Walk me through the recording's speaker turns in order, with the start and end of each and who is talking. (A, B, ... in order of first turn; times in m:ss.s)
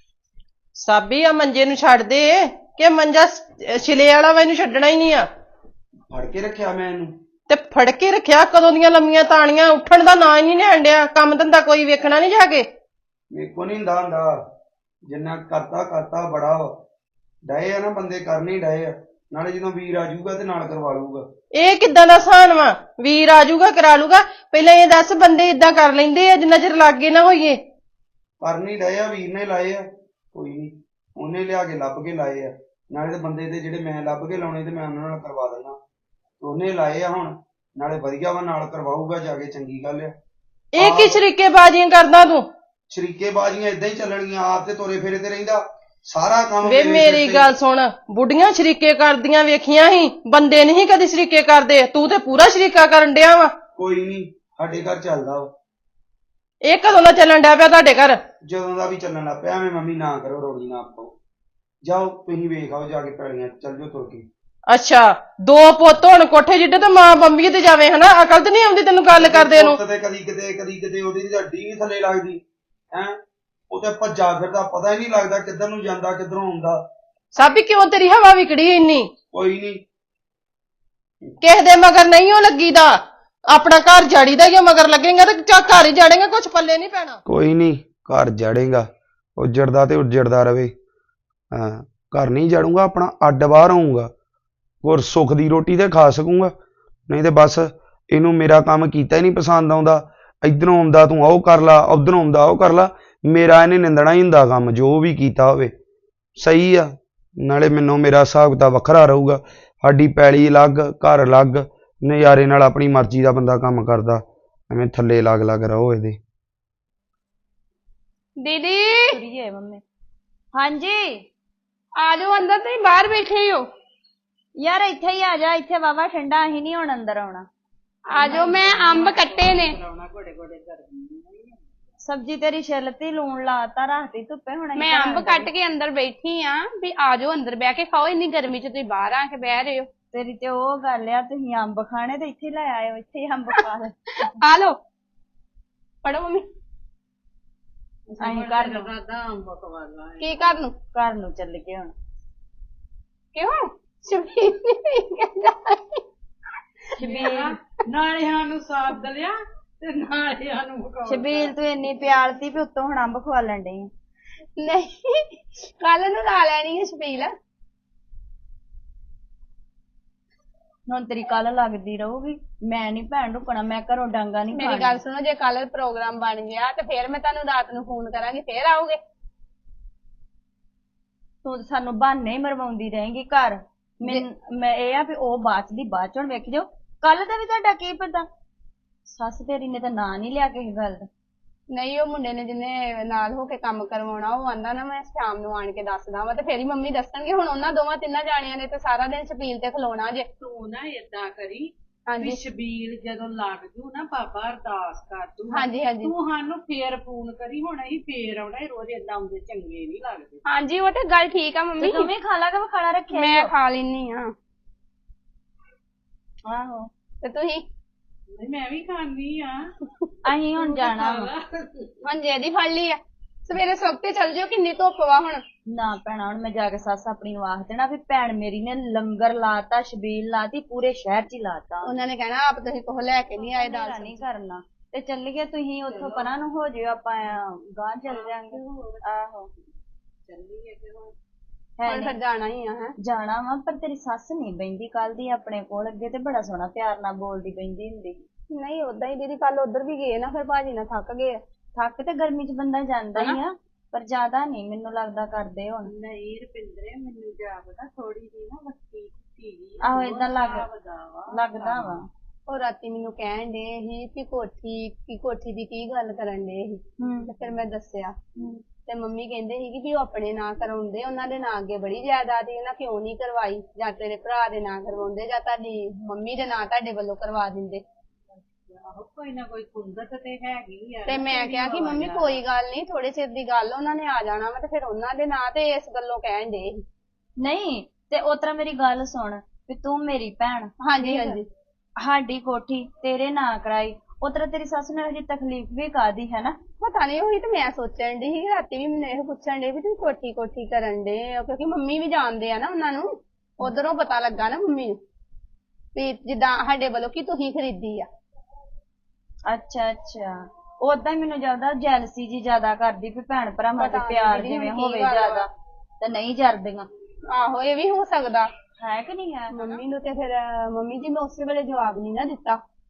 0:00.8-0:05.3 A
0:06.1-0:07.1 B
0:07.5-0:12.7 A
0:13.3-0:14.4 B
0:15.1-0:16.8 B
0:17.4-0:21.3 B
0:21.5-0:27.6 A
0:28.4-0:35.8 B
0:36.4-0:40.2 B
0:40.7-0:42.5 A
0:40.8-0:41.2 B
0:42.9-0:47.5 B
0:46.6-0:53.5 A
0:53.8-0:55.5 B
0:56.6-0:58.2 A
0:58.4-1:01.1 B
1:01.8-1:04.3 B
1:04.7-1:09.8 A
1:09.1-1:13.2 B
1:13.7-1:16.8 B
1:17.4-1:19.1 A
1:19.3-1:19.8 B
1:21.4-1:23.0 A
1:23.5-1:27.2 A
1:27.3-1:30.7 B
1:31.5-1:34.1 B
1:34.8-1:36.5 B
1:37.1-1:45.7 B
1:46.4-1:56.2 B
1:58.4-1:59.1 C
1:59.1-1:59.8 D
2:00.6-2:01.2 D
2:02.0-2:03.7 C
2:04.6-2:07.5 D
2:08.1-2:09.8 C
2:08.2-2:11.6 E
2:12.0-2:15.5 D
2:14.8-2:19.9 C
2:20.1-2:24.1 D
2:24.4-2:24.8 C
2:26.0-2:26.5 C
2:28.1-2:30.5 E
2:28.2-2:28.9 D
2:30.2-2:30.7 C
2:30.9-2:31.9 D
2:33.3-2:36.0 C
2:37.0-2:37.5 D
2:37.0-2:41.5 E
2:41.0-2:43.9 D
2:44.6-2:47.3 C
2:50.9-2:55.0 D
2:54.5-2:59.0 C
3:01.4-3:08.3 D
3:09.1-3:11.1 D
3:11.7-3:20.3 C
3:20.4-3:30.4 E
3:22.1-3:22.4 C
3:25.5-3:26.1 C
3:30.5-3:32.1 C
3:31.8-3:33.5 D
3:33.1-3:34.3 C
3:36.5-3:36.9 D
3:37.2-3:37.6 C
3:38.3-3:39.8 E
3:40.2-3:41.3 D
3:40.5-3:42.0 E
3:42.0-3:45.4 C
3:45.7-3:51.9 D
3:51.8-3:54.2 C
3:53.4-3:59.5 D
3:55.9-3:56.3 E
3:58.1-3:59.1 E
4:00.3-4:01.2 E
4:01.8-4:02.2 D
4:01.9-4:02.9 C
4:03.0-4:08.2 D
4:08.5-4:11.4 C
4:11.8-4:15.9 D
4:15.8-4:22.1 E
4:19.8-4:20.7 D
4:21.3-4:22.1 D
4:22.5-4:28.2 C
4:27.0-4:27.3 D
4:28.9-4:37.8 C
4:38.7-4:42.4 E
4:41.1-4:46.8 C
4:47.4-4:51.4 D
4:50.8-4:51.5 C
4:52.0-4:56.6 D
4:56.8-5:03.1 C
5:03.6-5:05.0 C
5:06.0-5:08.1 C
5:09.5-5:15.5 D
5:13.8-5:15.4 C
5:16.0-5:16.9 D
5:17.3-5:18.5 C
5:18.8-5:19.8 D
5:19.5-5:22.6 C